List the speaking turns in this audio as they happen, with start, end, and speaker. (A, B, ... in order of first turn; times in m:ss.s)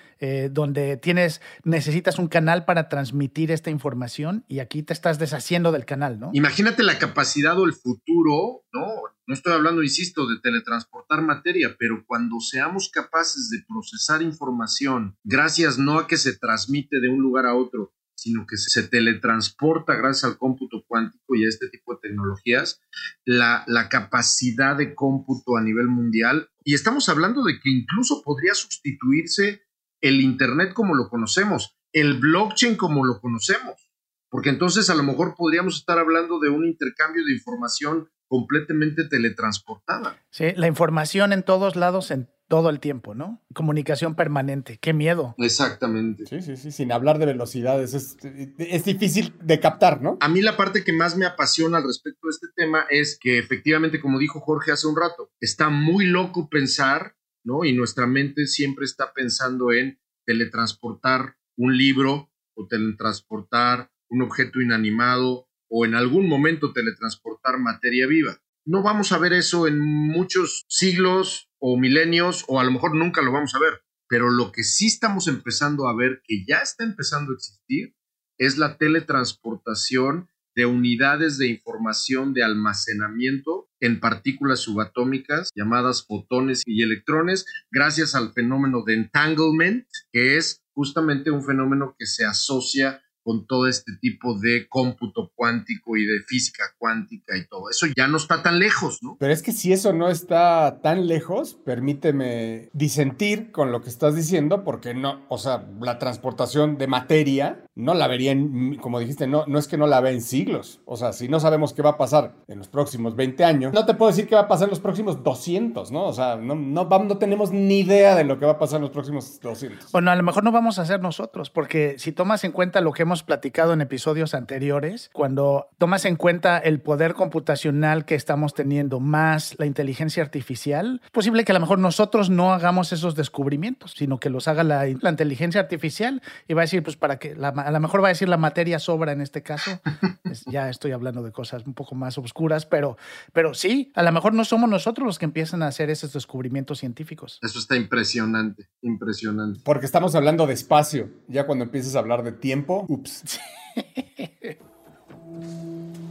0:00.2-0:06.4 A
0:06.3-0:40.2 B
0:40.3-0:45.4 A
0:45.4-0:46.3 B
0:46.3-0:50.2 C
0:50.2-1:39.2 B
1:39.2-1:59.9 C
1:59.9-2:27.4 A
2:27.4-2:29.6 B
2:29.6-2:33.2 C
2:33.3-2:34.6 A